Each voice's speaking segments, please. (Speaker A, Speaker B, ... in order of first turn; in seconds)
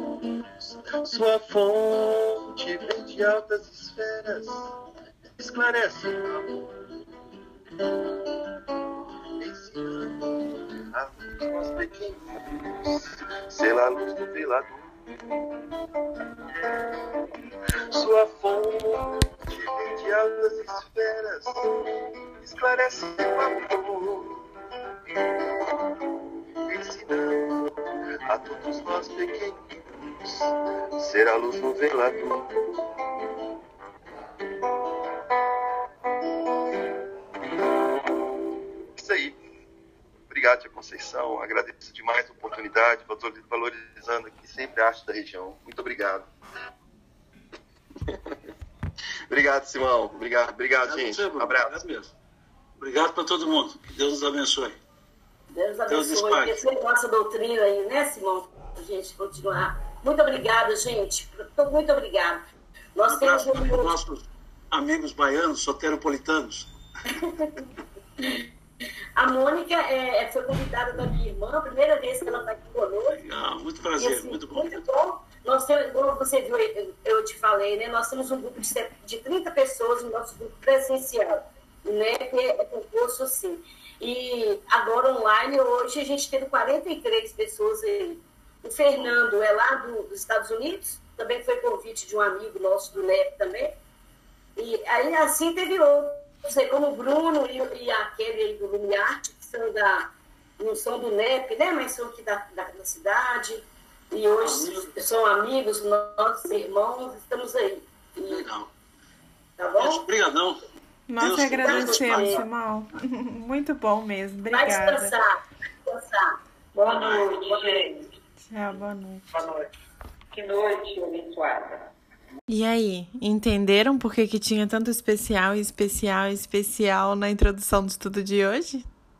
Speaker A: 0.6-4.7, 5.4-6.8, 9.4-15.0, 17.9-21.7, 22.4-24.4, 26.6-27.6, 28.3-32.7, 39.0-39.4, 40.3-46.3, 49.3-51.8
Speaker B: 50.9-52.1, 52.8-54.8, 55.9-56.6, 63.0-66.7, 73.1-74.8, 104.4-104.8, 108.3-108.7, 109.8-110.6, 111.2-112.4, 116.9-117.3
Speaker C: 55.5-63.9, 67.1-67.5, 69.2-73.2, 74.0-93.8, 94.6-108.5, 109.6-110.0, 111.6-112.4, 114.5-115.3, 115.8-117.9
Speaker D: 111.1-115.2, 118.4-119.3, 122.5-128.8
Speaker E: 116.8-118.0, 119.3-119.7, 120.3-121.9